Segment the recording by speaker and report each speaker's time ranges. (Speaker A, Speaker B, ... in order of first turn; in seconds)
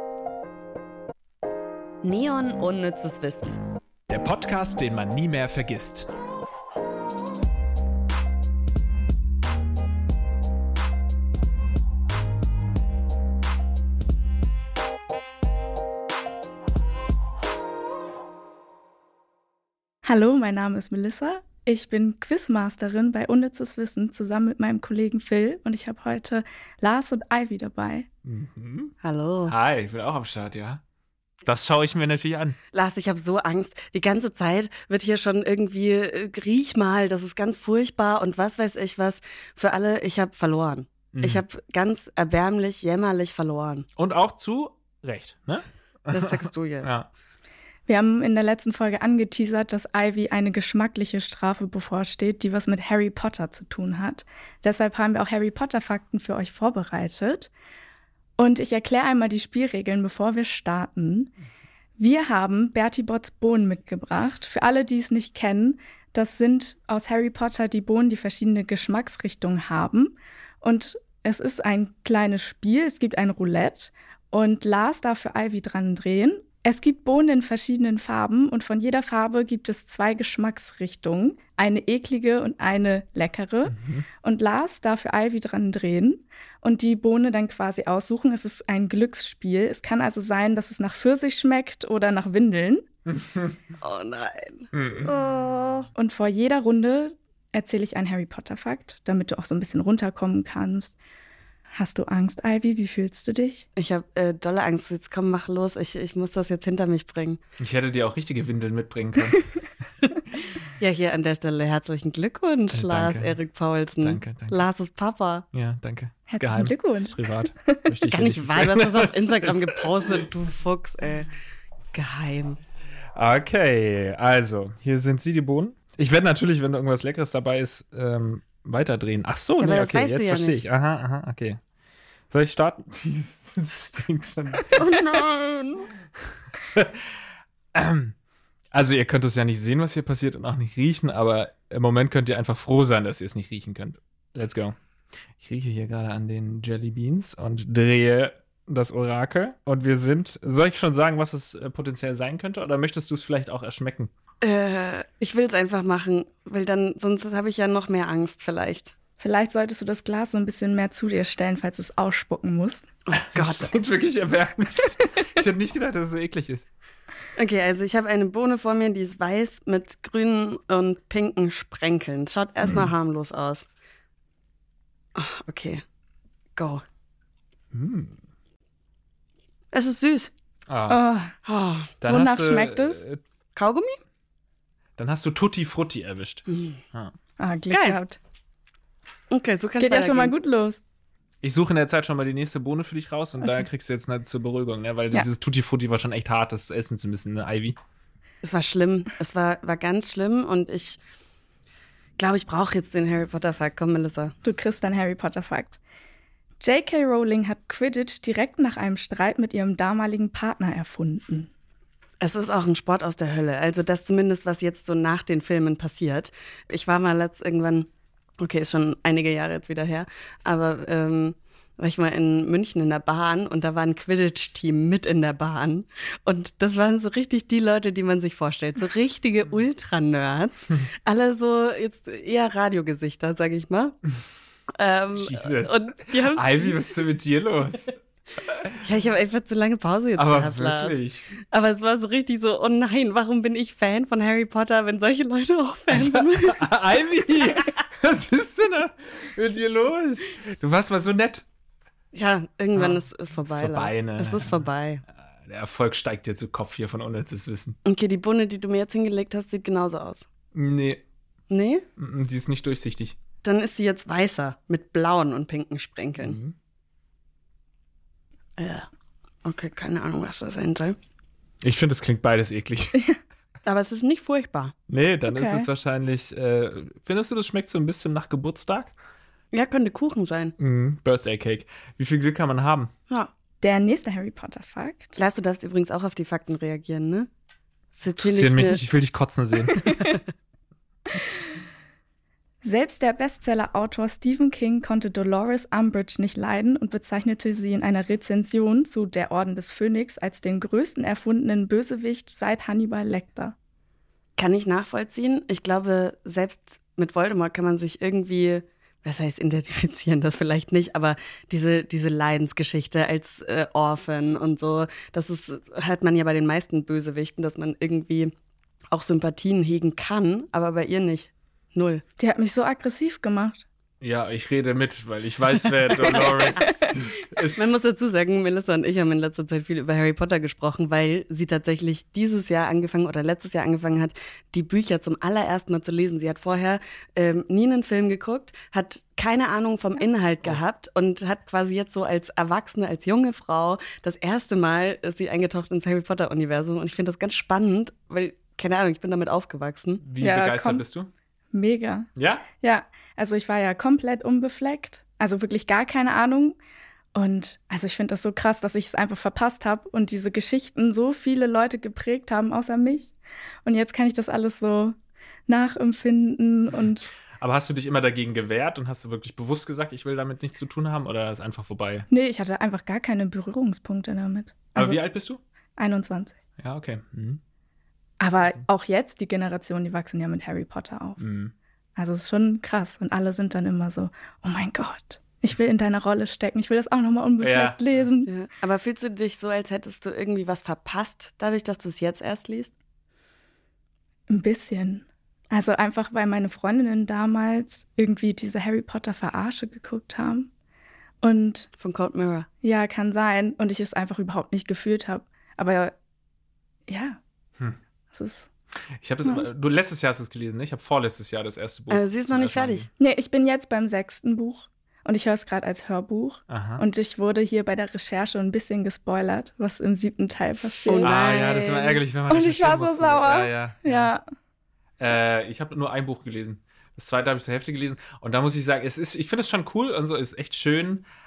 Speaker A: 2.0-3.6, 29.0-29.5, 32.7-43.9, 46.1-46.9, 93.8-95.9, 103.8-107.4, 110.8-115.5, 118.1-121.3, 121.9-122.6, 129.6-130.7, 134.7-135.9, 154.4-158.9, 163.1-163.7, 167.3-173.7, 175.2-175.8, 176.6-176.8, 179.7-180.3, 181.4-181.9, 183.6-184.0, 186.5-186.8, 187.7-188.0, 189.3-190.3, 198.4-201.0, 202.2-204.3, 212.2-217.9, 218.4-233.9, 234.8-236.9, 238.8-246.7, 252.1-255.0, 257.8-260.2, 261.5-261.8, 263.4-266.4, 268.6-268.9, 269.4-270.9, 273.6-274.7, 279.5-280.5, 285.1-287.3, 287.9-288.9, 289.8-290.1, 304.4-318.3, 318.9-322.0, 326.0-326.8, 327.6-350.0, 388.2-392.7, 401.8-402.5, 411.9-412.9, 420.8-422.0
Speaker B: 4.1-6.1, 28.2-28.9, 29.5-30.8, 31.4-32.6, 41.1-41.4, 44.0-47.1, 83.7-84.0, 93.1-93.5, 94.7-95.1, 107.6-109.5, 112.7-113.4, 114.0-114.6, 115.5-120.2, 123.2-131.6, 132.3-135.0, 136.7-137.0, 137.7-138.1, 138.7-144.7, 145.4-154.1, 163.1-166.7, 172.6-172.9, 177.7-178.2, 180.7-181.0, 182.0-183.2, 185.0-187.1, 191.4-197.8, 235.1-238.8, 240.2-241.3, 245.9-251.4, 252.7-257.8, 260.5-261.0, 262.0-263.2, 266.2-266.5, 271.6-273.0, 274.9-278.9, 280.6-282.9, 288.2-289.9, 324.0-327.7, 350.0-351.1, 352.1-352.5, 367.4-372.1, 374.7-375.4, 376.6-377.4, 381.2-381.5, 387.4-388.1, 409.0-412.9, 416.5-416.8, 421.0-424.1, 425.0-431.1
Speaker C: 20.0-28.1, 47.9-57.5, 58.4-61.3, 62.0-92.8, 95.9-101.0, 101.7-103.7, 116.3-117.9, 159.2-162.8, 180.9-181.3, 182.0-183.0, 187.4-188.2, 189.8-190.8, 204.4-205.8, 206.6-211.5, 275.3-275.7, 283.6-285.2, 289.8-290.1, 292.6-303.6, 322.2-323.6, 350.2-350.8, 351.5-356.6, 357.1-364.9, 365.5-367.1, 372.1-375.0, 375.8-376.4, 378.2-381.2, 381.9-388.3, 394.3-400.5, 401.2-401.7, 402.6-405.9, 406.9-407.2, 408.1-408.5, 413.0-421.2, 422.3-424.2